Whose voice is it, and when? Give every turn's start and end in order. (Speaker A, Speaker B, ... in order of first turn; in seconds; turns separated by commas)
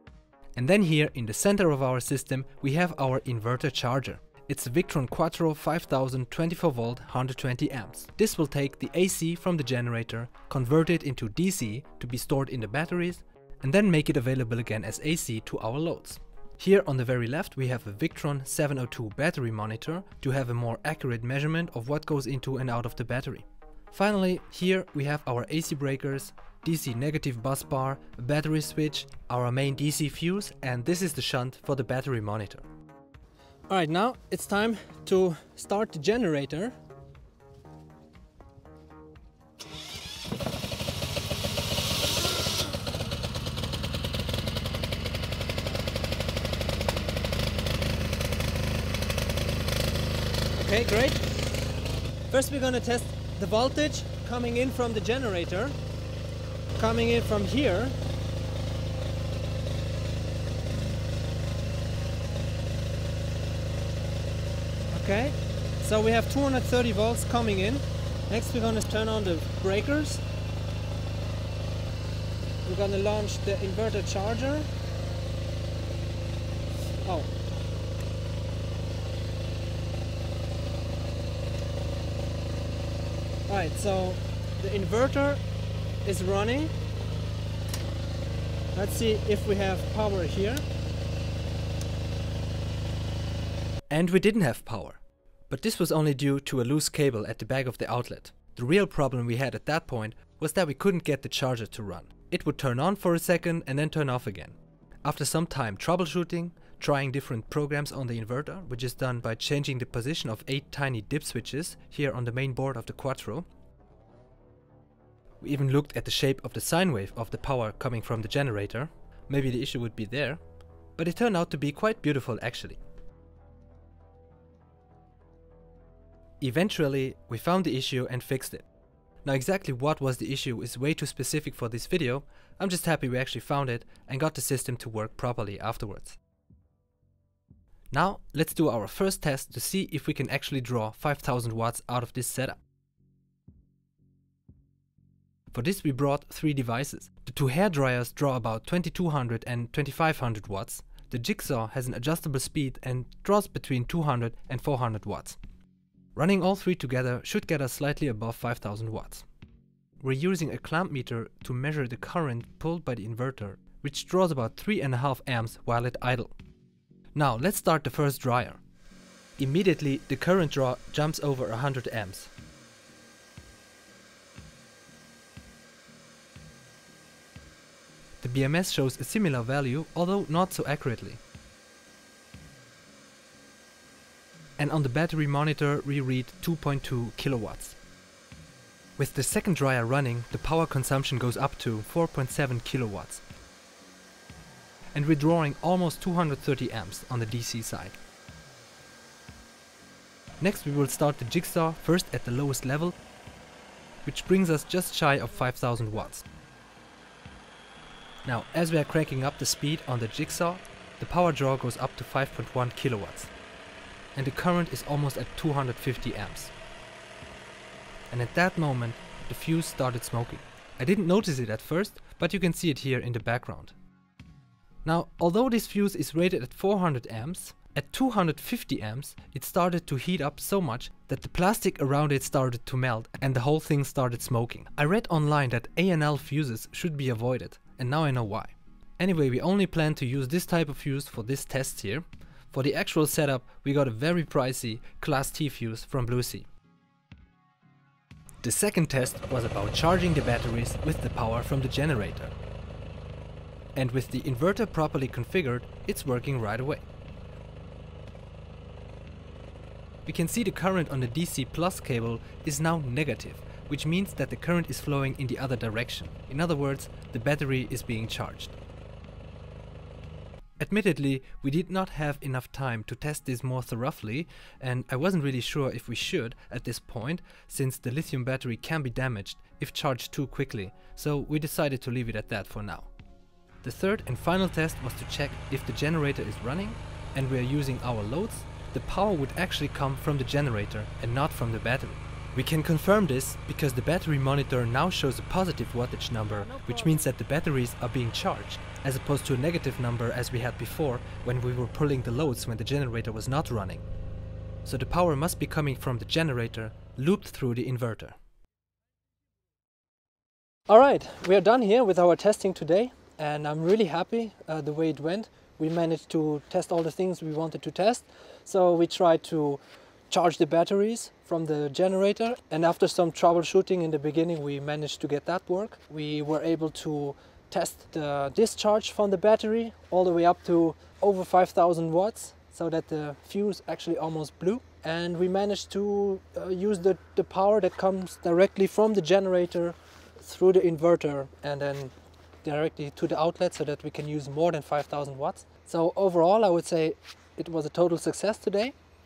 Speaker A: 0.6-32.6, Speaker A: 33.7-36.8, Speaker A: 50.6-51.3, Speaker A: 52.3-55.8, Speaker A: 56.8-58.0, Speaker A: 64.9-70.2, Speaker A: 72.7-74.7, Speaker A: 77.0-77.3, Speaker A: 83.5-85.4, Speaker A: 86.0-86.7, Speaker A: 88.7-90.7, Speaker A: 93.9-113.5, Speaker A: 115.4-120.4, Speaker A: 121.0-122.8, Speaker A: 126.4-128.7, Speaker A: 129.2-136.2, Speaker A: 137.9-142.6, Speaker A: 145.5-155.4, Speaker A: 156.2-159.3, Speaker A: 160.0-166.3, Speaker A: 167.2-168.6, Speaker A: 169.4-172.3, Speaker A: 178.2-181.2, Speaker A: 184.6-187.8, Speaker A: 189.0-193.2, Speaker A: 194.9-198.0, Speaker A: 200.4-202.9, Speaker A: 204.1-206.2, Speaker A: 208.2-213.3, Speaker A: 214.2-216.5, Speaker A: 218.1-223.8, Speaker A: 224.8-246.5, Speaker A: 248.4-252.3, Speaker A: 253.8-256.9, Speaker A: 260.1-268.5, Speaker A: 270.6-282.9, Speaker A: 283.6-303.8, Speaker A: 304.6-308.1, Speaker A: 310.7-348.8